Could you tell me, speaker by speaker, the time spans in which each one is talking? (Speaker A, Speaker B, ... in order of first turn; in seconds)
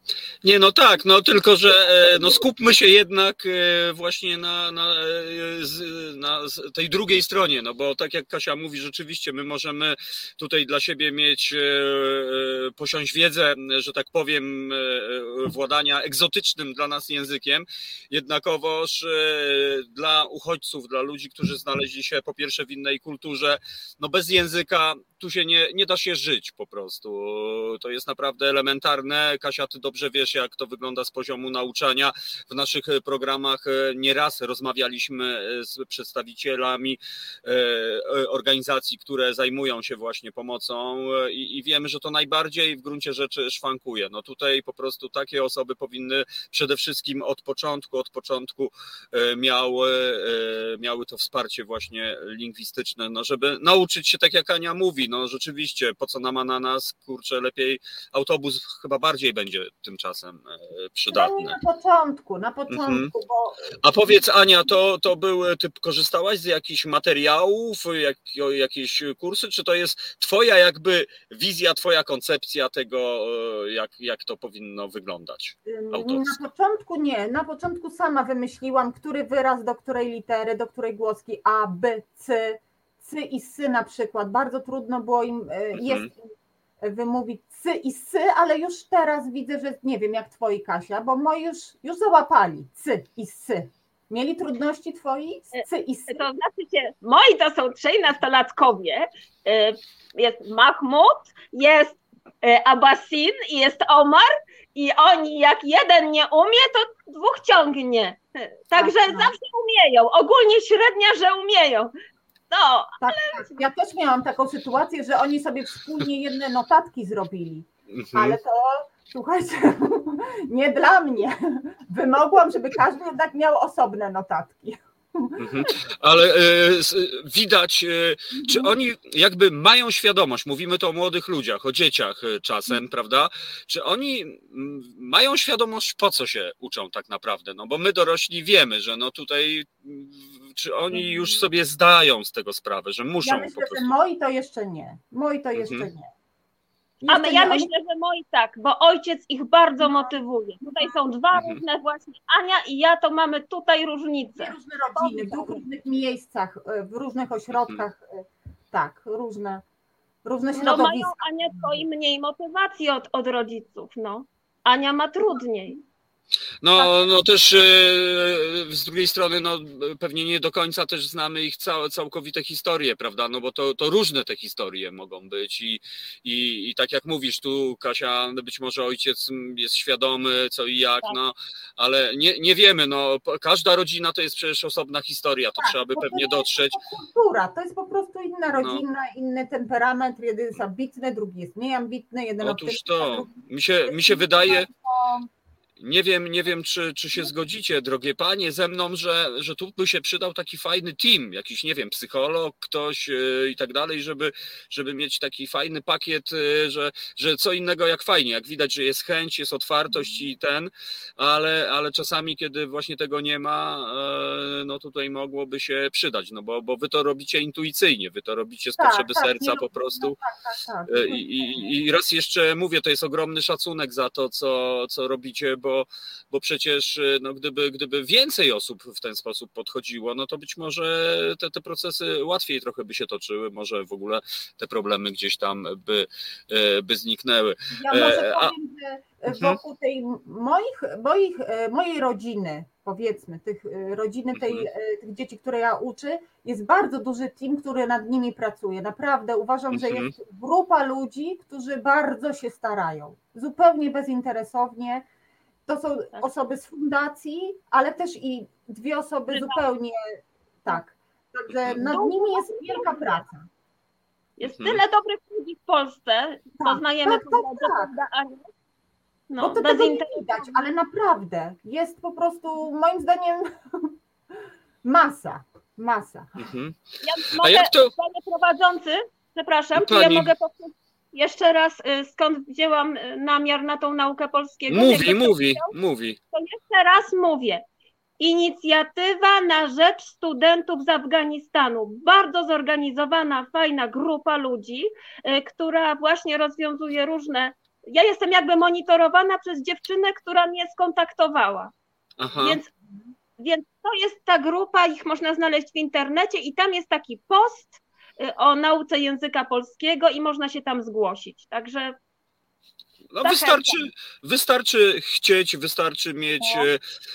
Speaker A: 0.4-61.6, 62.7-63.1, 63.8-76.4, 85.7-86.1, 117.9-118.4, 125.4-143.9, 145.5-145.9, 151.3-151.6, 166.6-186.8, 188.5-188.8, 192.4-194.7, 195.8-220.2, 220.9-238.5, 239.3-239.6, 244.3-244.7, 249.7-250.1, 261.5-261.8, 264.4-264.8, 276.4-277.9, 279.8-280.3, 284.7-286.2, 302.2-302.6, 313.1-316.8
Speaker B: 61.1-63.8, 75.7-86.2, 86.8-96.2, 108.8-109.3, 113.0-125.4, 128.3-128.7, 140.9-141.5, 143.2-146.1, 147.0-147.7, 149.8-151.0, 154.3-159.6, 160.2-161.8, 185.6-195.3, 218.8-221.7, 237.8-255.1, 255.7-263.5, 266.6-267.9, 269.4-273.9, 274.8-276.3
Speaker C: 95.5-111.9, 112.5-113.6, 147.1-155.6, 160.6-165.8, 259.3-259.6, 261.8-263.1, 264.4-268.5, 269.3-270.6, 277.0-285.7, 286.3-287.6, 288.2-301.7, 302.4-302.7, 303.4-312.0, 313.2-313.8, 316.4-316.7